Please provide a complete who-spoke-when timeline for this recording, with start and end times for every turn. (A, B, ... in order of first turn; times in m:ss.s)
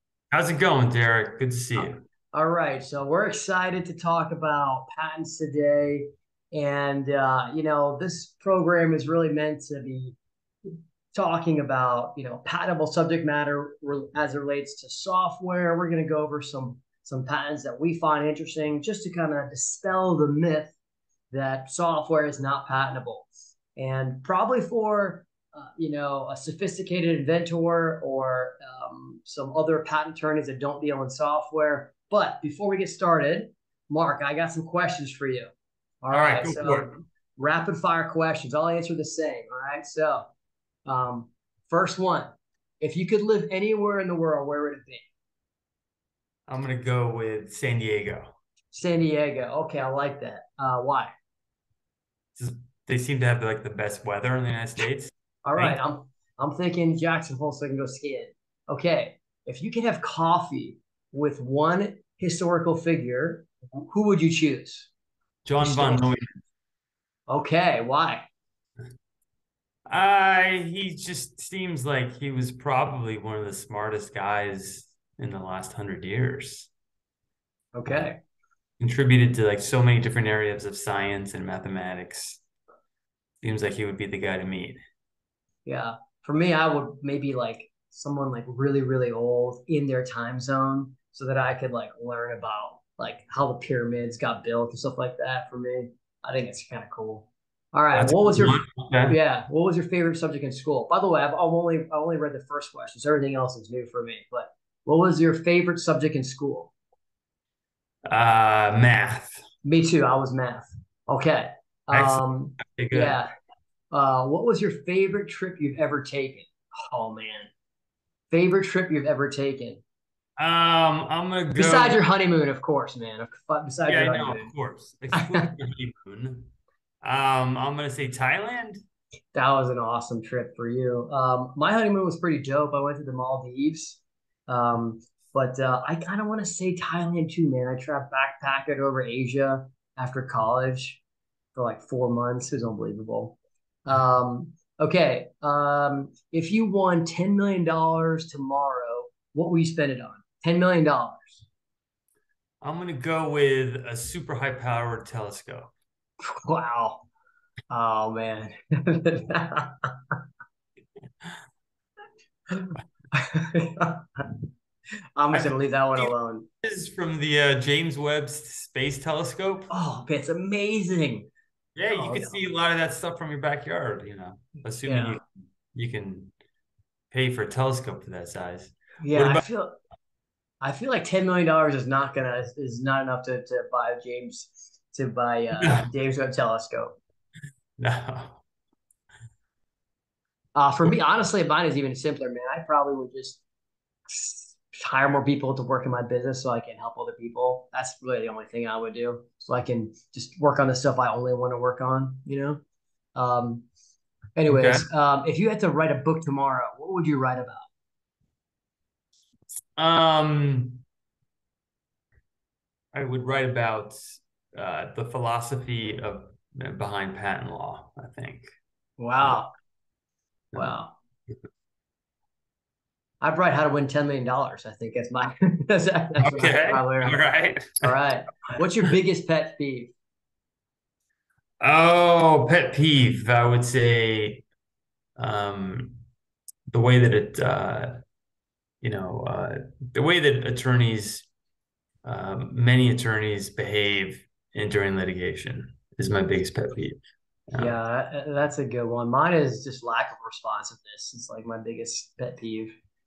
0:00.3-0:02.0 A
0:01.8-0:20.8 B
0:21.3-0:35.5 B
0:36.0-0:40.3 B
0:36.1-0:37.0 A
0:40.8-0:45.1 B
0:46.5-0:48.4 A
0:48.7-0:51.1 B
0:52.4-0:55.8 A
0:55.4-1:04.9 B
1:05.4-1:06.4 A
1:05.6-1:06.1 B
1:07.3-1:08.2 B
1:09.9-1:16.7 A
1:17.7-1:18.2 B
1:18.8-1:22.4 A
1:23.4-1:24.8 A
1:25.7-1:46.7 B
1:38.0-1:39.2 A
1:48.1-1:49.4 A
1:49.6-1:53.3 B
1:51.9-1:53.2 A
1:53.9-1:57.5 B
1:58.3-1:59.8 B
2:00.4-2:02.0 A
2:01.6-2:04.5 B
2:03.9-2:08.8 A
2:05.1-2:05.5 B
2:09.3-2:21.0 B
2:21.6-2:31.4 B
2:32.6-2:35.7 A
2:36.2-2:37.1 B
2:37.7-2:40.1 B
2:42.5-2:44.3 B
2:45.2-2:46.5 B
2:45.3-2:46.1 A
2:46.6-2:49.7 A
2:49.7-2:51.3 B
2:51.8-2:56.3 A
2:51.9-2:52.4 B
2:54.8-2:55.2 B
2:57.1-2:59.5 A
2:59.0-2:59.8 B
3:00.6-3:07.0 B
3:05.6-3:05.9 A
3:07.8-3:08.4 A
3:10.6-3:13.4 B
3:14.1-3:22.6 B
3:23.2-3:23.7 B
3:24.4-3:27.7 B
3:24.5-3:24.9 A
3:29.8-3:30.8 A
3:32.9-3:34.0 A
3:34.5-3:38.5 A
3:39.0-3:39.5 B
3:40.5-3:41.0 B
3:43.2-3:47.2 B
3:46.2-3:48.0 A
3:47.8-3:49.9 B
3:51.6-3:54.4 A
3:55.2-3:56.0 A
3:56.7-3:58.0 A
3:58.8-4:01.3 A
4:02.0-4:07.7 A
4:07.6-4:12.7 B